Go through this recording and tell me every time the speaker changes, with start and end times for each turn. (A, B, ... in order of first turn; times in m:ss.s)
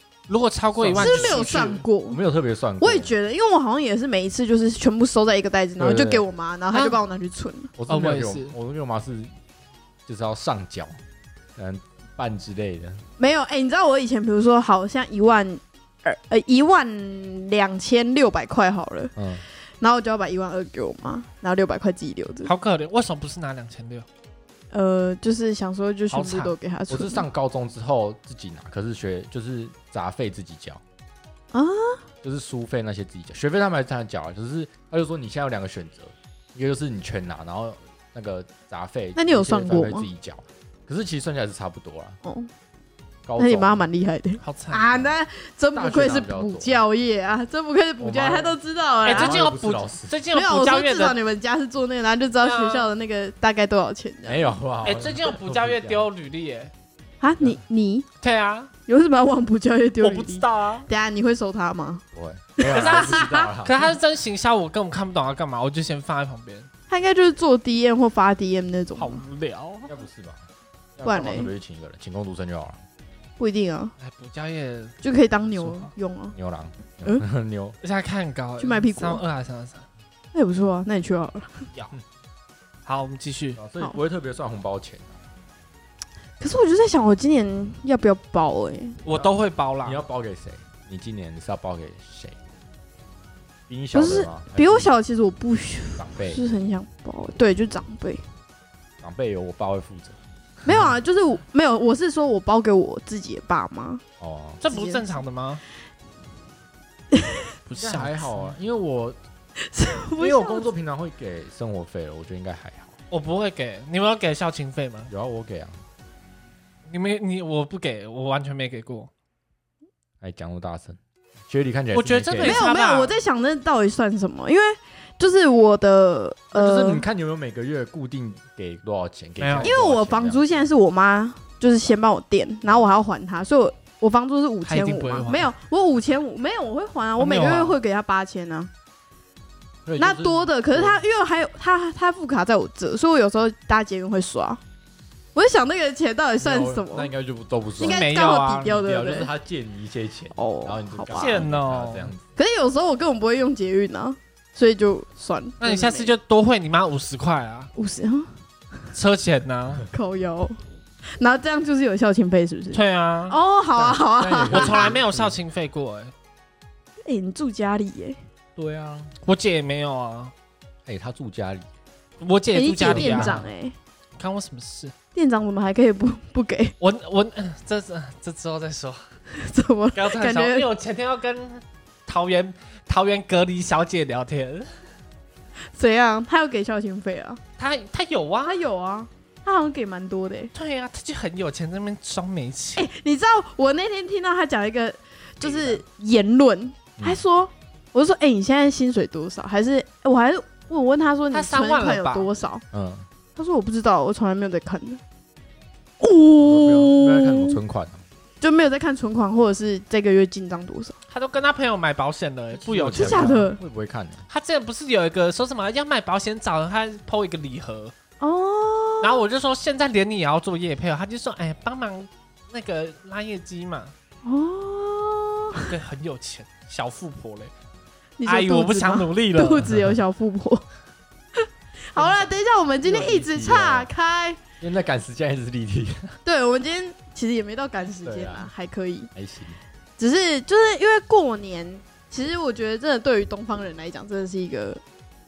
0:00.3-0:01.8 A
0:00.7-0:03.1 B
0:00.9-0:02.2 C
0:02.8-0:07.7 C
0:05.8-0:06.2 B
0:06.7-0:07.0 A
0:07.8-0:09.3 B
0:07.9-0:08.5 A
0:10.0-0:11.0 B
0:11.6-0:13.0 B
0:13.2-0:19.1 C
0:19.2-0:19.4 B
0:19.8-0:22.5 C
0:22.4-0:24.0 A
0:24.7-0:27.2 C
0:26.1-0:26.5 A
0:26.9-0:30.8 B
0:31.5-0:32.0 C
0:32.2-0:42.2 B
0:39.2-0:40.1 C
0:42.2-0:42.5 C
0:43.2-0:43.9 B
0:43.4-0:49.4 C
0:44.4-0:44.8 A
0:45.7-0:46.8 B
0:48.0-0:48.6 B
0:49.0-0:51.2 A
0:49.1-0:50.1 B
0:50.3-0:54.6 C
0:52.4-0:52.9 A
0:54.2-0:56.1 B
0:54.8-0:56.7 A
0:57.2-0:58.0 C
0:58.2-0:58.7 A
0:58.9-1:02.0 C
1:00.0-1:00.9 A
1:02.1-1:03.9 B
1:02.6-1:03.5 C
1:02.7-1:06.7 A
1:06.9-1:09.2 C
1:09.0-1:09.9 A
1:09.9-1:10.4 B
1:11.0-1:12.8 B
1:11.0-1:11.5 C
1:13.4-1:13.9 C
1:14.0-1:15.0 A
1:15.0-1:16.3 C
1:16.3-1:17.8 B
1:17.8-1:19.8 A
1:18.6-1:19.2 C
1:20.3-1:21.7 C
1:22.8-1:23.6 A
1:23.6-1:25.2 B
1:26.4-1:29.0 C
1:29.0-1:30.0 A
1:29.1-1:32.4 B
1:33.7-1:34.9 B
1:33.9-1:38.2 C
1:36.0-1:36.4 B
1:39.0-1:40.2 B
1:40.6-1:44.0 C
1:44.2-1:44.6 B
1:44.6-1:45.6 A
1:44.6-1:45.2 C
1:47.1-1:47.4 C
1:47.7-1:48.5 A
1:47.8-1:49.2 B
1:49.6-1:50.7 C
1:50.2-1:53.0 B
1:53.1-1:55.1 A
1:55.1-1:55.8 B
1:56.9-1:59.1 A
2:00.2-2:02.7 B
2:01.9-2:03.2 A
2:02.4-2:07.0 C
2:06.5-2:10.7 B
2:09.4-2:09.7 A
2:09.6-2:18.7 C
2:14.6-2:15.5 A
2:17.2-2:17.8 A
2:19.8-2:21.0 B
2:20.0-2:24.6 C
2:25.3-2:27.1 C
2:26.4-2:28.1 B
2:27.8-2:29.3 C
2:27.8-2:28.8 A
2:28.6-2:32.2 B
2:30.3-2:31.4 C
2:31.1-2:32.1 A
2:32.4-2:36.1 C
2:35.6-2:37.7 A
2:37.7-2:38.3 C
2:38.9-2:39.8 A
2:39.9-2:40.6 C
2:41.2-2:44.9 C
2:42.7-2:43.4 A
2:43.8-2:45.4 B
2:44.5-2:46.1 A
2:47.0-2:48.2 C
2:48.6-2:49.1 B
2:49.2-2:50.3 A
2:50.8-2:51.6 B
2:52.2-2:53.4 A
2:52.5-2:53.7 C
2:52.8-2:53.4 B
2:54.2-2:54.9 A
2:55.1-2:56.7 C
2:56.8-2:59.0 A
2:59.3-3:00.7 C
2:59.9-3:04.7 A
3:05.7-3:07.4 C
3:07.6-3:08.6 A
3:08.4-3:10.5 C
3:10.5-3:12.9 A
3:12.7-3:22.6 C
3:15.4-3:15.8 A
3:17.0-3:17.2 B
3:21.3-3:22.3 A
3:22.7-3:23.0 B
3:23.4-3:25.0 C
3:26.0-3:27.6 C
3:26.4-3:28.0 B
3:28.4-3:31.0 C
3:31.1-3:33.4 A
3:32.5-3:34.2 B
3:32.9-3:33.6 C
3:34.3-3:37.9 A
3:38.2-3:39.2 C
3:39.0-3:43.9 A
3:44.2-3:45.7 C
3:45.6-3:47.5 A
3:48.2-3:50.6 C
3:48.2-3:49.7 A
3:51.4-3:54.4 C
3:52.8-3:53.9 B
3:54.6-3:56.1 B
3:56.2-3:59.1 C
3:58.0-3:58.5 B
3:59.1-3:59.6 B
4:00.0-4:04.8 C